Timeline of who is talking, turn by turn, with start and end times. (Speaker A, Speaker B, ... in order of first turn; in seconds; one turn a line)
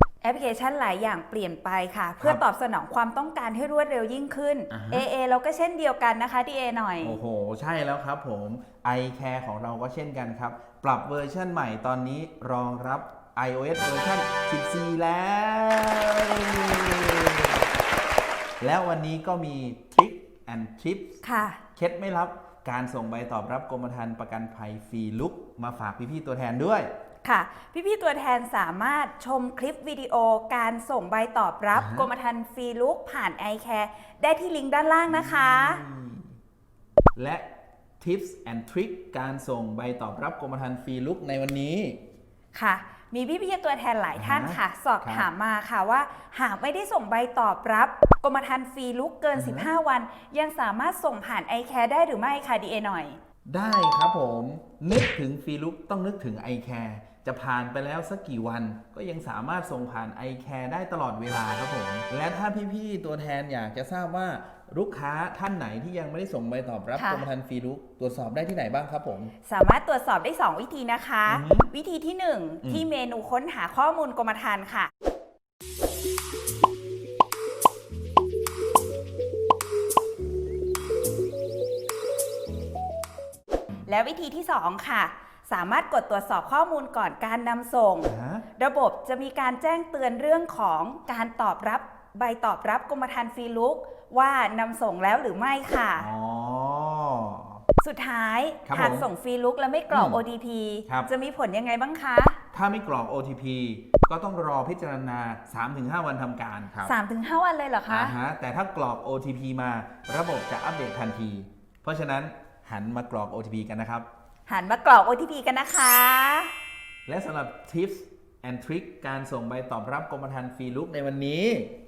Speaker A: 0.2-7.2
Speaker B: 4.7-5.1
Speaker B: 7.0-17.6
Speaker B: 18.6-21.2
Speaker A: 21.2-21.6
Speaker B: 21.7-26.9
Speaker A: 27.2-35.8
Speaker B: 31.7-32.1
Speaker B: 35.1-36.3
Speaker B: 37.1-37.5
Speaker B: 38.0-42.0
Speaker A: 42.5-53.2
Speaker B: 44.1-45.3
Speaker B: 49.3-49.7
Speaker B: 53.5-69.3
Speaker A: 67.0-67.2
Speaker A: 69.4-74.9
Speaker B: 71.3-71.7
Speaker A: 83.8-96.1
Speaker B: 88.0-88.5
Speaker B: 96.0-97.6
Speaker A: 97.8-102.4
Speaker B: 98.6-99.1
Speaker B: 99.9-100.2
Speaker B: 102.5-106.9
Speaker A: 106.8-108.1
Speaker B: 107.9-114.1
Speaker A: 114.5-116.5
Speaker B: 117.0-121.7